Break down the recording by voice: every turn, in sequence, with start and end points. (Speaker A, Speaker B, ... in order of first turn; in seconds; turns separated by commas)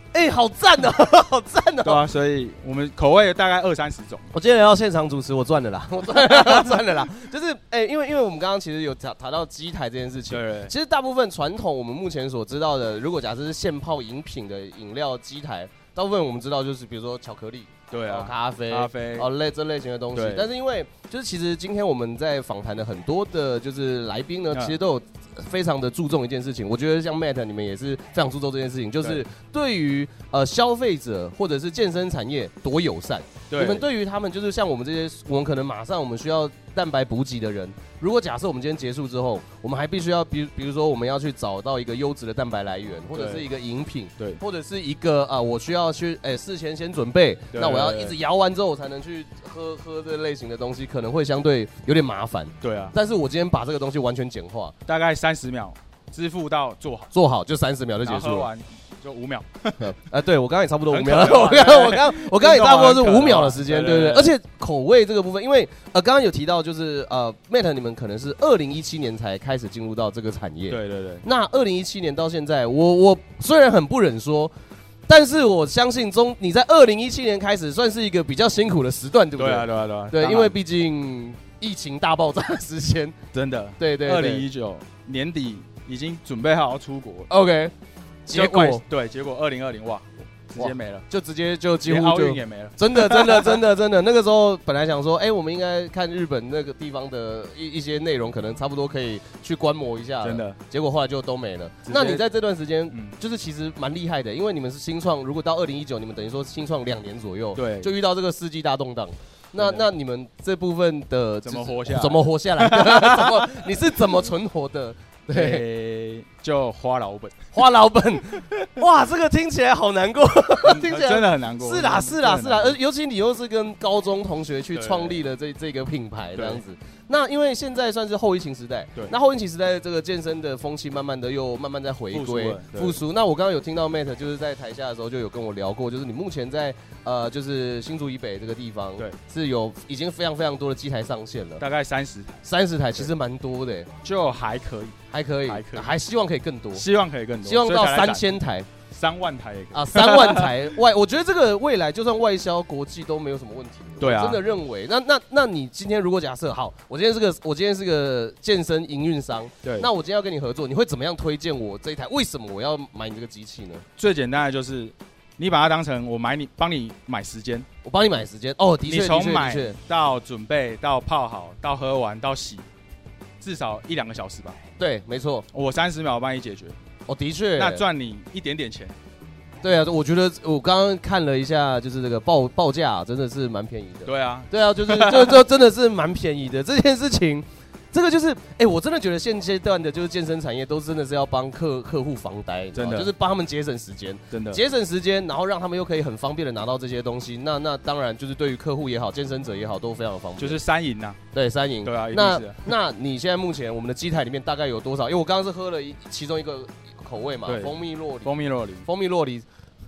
Speaker A: 0.1-2.1, Speaker B: 1.8-4.3, Speaker A: 4.3-54.7, Speaker B: 10.3-10.7, Speaker B: 17.9-19.3, Speaker B: 20.1-20.5, Speaker B: 24.5-24.8, Speaker B: 33.5-33.9, Speaker B: 43.1-43.5, Speaker B: 47.5-48.1, Speaker B: 52.6-52.9, Speaker B: 54.9-57.1, Speaker A: 57.1-58.5, Speaker B: 58.0-59.9, Speaker A: 59.8-74.5, Speaker B: 60.9-64.3, Speaker B: 70.7-71.2, Speaker A: 75.1-83.2, Speaker B: 79.4-80.5, Speaker B: 83.3-87.3, Speaker A: 83.8-84.5, Speaker A: 87.3-87.7, Speaker A: 88.3-88.8, Speaker B: 88.3-91.0, Speaker A: 90.6-115.6, Speaker B: 91.8-93.6, Speaker B: 100.2-100.6, Speaker B: 101.8-102.2, Speaker B: 107.5-107.9, Speaker B: 109.5-109.8, Speaker B: 111.4-113.5, Speaker B: 115.3-117.4, Speaker A: 117.5-141.6, Speaker B: 120.6-122.8, Speaker B: 124.7-125.2, Speaker B: 126.3-126.6, Speaker B: 132.1-133.0, Speaker B: 141.6-142.4, Speaker A: 142.4-143.9, Speaker B: 144.0-144.9, Speaker A: 145.1-146.8, Speaker B: 145.5-145.9, Speaker B: 146.7-148.4, Speaker A: 147.4-148.7, Speaker B: 148.9-150.7, Speaker A: 149.7-163.8, Speaker B: 154.0-154.4, Speaker B: 164.0-167.7, Speaker A: 167.8-169.8, Speaker B: 168.8-172.7, Speaker B: 173.4-174.6, Speaker A: 174.8-175.4, Speaker B: 175.5-176.8, Speaker A: 177.1-177.8, Speaker B: 177.6-178.9, Speaker A: 179.6-200.6, Speaker B: 184.1-185.4, Speaker B: 192.7-193.1, Speaker B: 194.3-194.6, Speaker B: 200.4-201.2, Speaker A: 201.3-209.4, Speaker B: 201.8-202.7, Speaker B: 207.4-208.9